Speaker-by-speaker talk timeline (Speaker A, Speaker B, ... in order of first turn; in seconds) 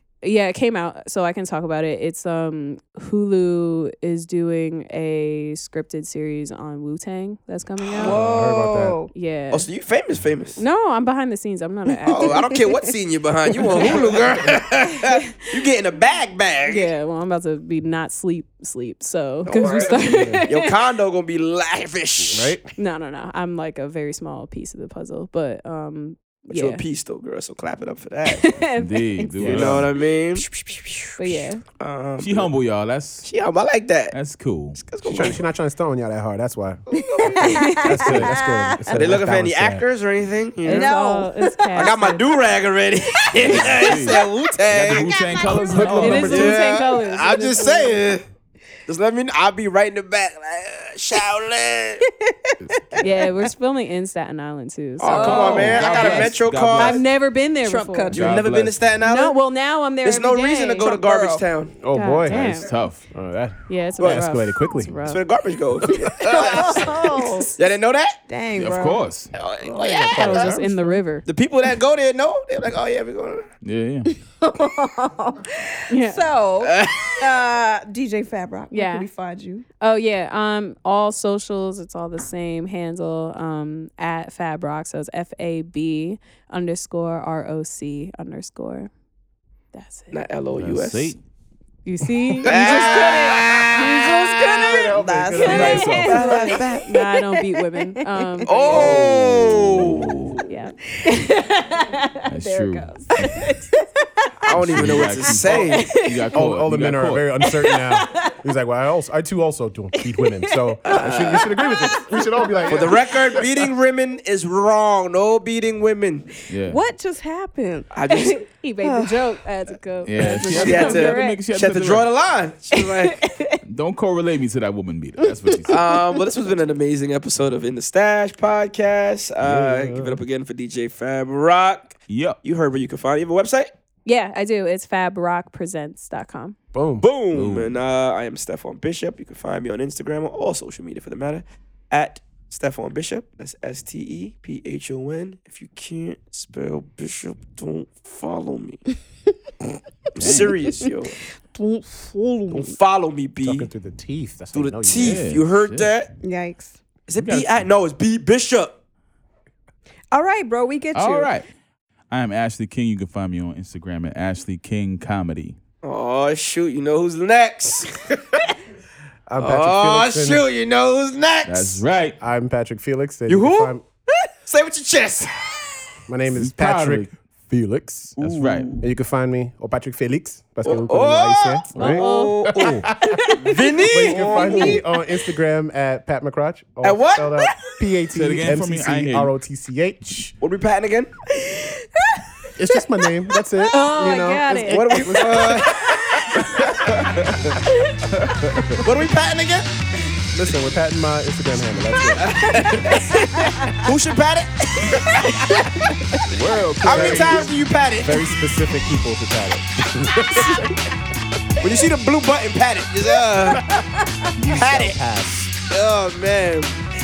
Speaker A: 0.2-8.2, 9.1-9.7, 10.6-12.5, 16.7-20.7, 22.8-26.8, 28.2-29.8, 31.2-31.6, 37.4-37.9, 40.6-42.2, 45.8-48.0, 53.0-56.2, 56.7-58.2, 59.0-61.0, 61.9-62.7, 63.7-65.2, 70.1-71.2, 75.9-76.3, 78.7-79.1, 79.8-88.9, 89.7-90.2, 91.8-94.6, 95.4-99.0, 100.5-103.5, 105.5-106.1, 107.8-108.3, 111.3-112.6, 118.1-121.4, 122.7-123.6, 134.0-136.6, 181.7-184.8, 193.7-195.1
Speaker B: 7.9-8.2, 9.5-10.6, 12.1-16.9, 19.4-22.6, 26.5-28.5, 29.4-30.5, 31.8-32.5, 33.2-34.1, 34.8-35.4, 36.9-37.6, 38.9-41.0, 41.7-48.2, 48.9-52.0, 55.0-57.0, 58.1-59.4, 60.0-61.7, 65.0-68.2, 69.3-70.6, 71.2-73.5, 76.6-77.4, 90.1-91.1, 92.4-93.9, 95.5-96.9, 98.5-100.5, 104.5-105.9, 110.9-111.5, 112.7-116.3, 117.9-118.4, 120.6-123.2, 125.7-133.7, 137.0-148.8, 150.2-151.1, 152.5-153.7, 154.5-156.1, 157.1-158.7, 165.8-168.5, 169.4-171.8, 173.3-173.8, 174.4-175.9, 178.2-178.8, 180.6-184.8, 186.8-187.7, 190.4-191.1, 194.7-197.1, 198.8-199.7, 202.2-205.6, 206.8-208.3, 211.6-213.6, 214.4-214.9, 215.7-216.7
Speaker C: 8.0-9.1, 30.5-31.1, 37.2-38.9, 40.6-42.0, 43.4-44.1, 52.0-53.0, 55.1-56.2, 57.6-58.4, 60.8-61.4, 65.9-67.6, 68.3-69.0, 74.1-79.7, 92.5-93.0, 93.6-99.6, 103.2-103.8, 112.1-112.9, 116.6-117.9, 118.8-119.3, 120.2-121.1, 151.5-152.7, 156.2-156.8, 160.1-161.3, 191.4-192.2, 202.6-203.8, 213.7-214.3
Speaker D: 8.0-9.0, 20.0-20.4, 22.2-22.6, 35.0-36.8, 37.7-39.8, 45.5-46.5, 52.6-53.0, 61.8-64.9, 66.0-66.8, 69.6-71.0, 93.4-93.9, 94.5-95.8, 106.3-113.0, 129.4-130.2, 136.7-137.7, 153.4-155.4, 169.3-170.4, 172.2-173.8, 176.1-178.2, 178.8-183.3, 183.9-190.3, 192.6-197.6, 198.5-198.8, 200.3-203.0, 206.8-207.5, 208.0-210.8, 213.6-213.8, 214.3-215.5
Speaker E: 28.8-29.9, 32.2-33.3, 34.1-34.8, 38.0-38.3, 43.4-46.6, 55.1-57.0, 58.1-58.8, 62.3-63.0, 68.5-69.3, 73.6-74.1, 90.5-91.2, 95.4-96.2, 99.8-100.4, 102.3-103.3, 104.5-107.3, 116.5-116.8, 120.0-122.1, 123.6-125.9, 132.1-132.4, 137.3-137.7, 150.2-150.7, 154.9-155.9, 157.2-157.5, 160.9-161.5, 162.1-165.6, 171.4-172.2, 176.3-177.1, 178.2-178.7, 188.1-189.3, 198.2-198.6, 206.3-207.5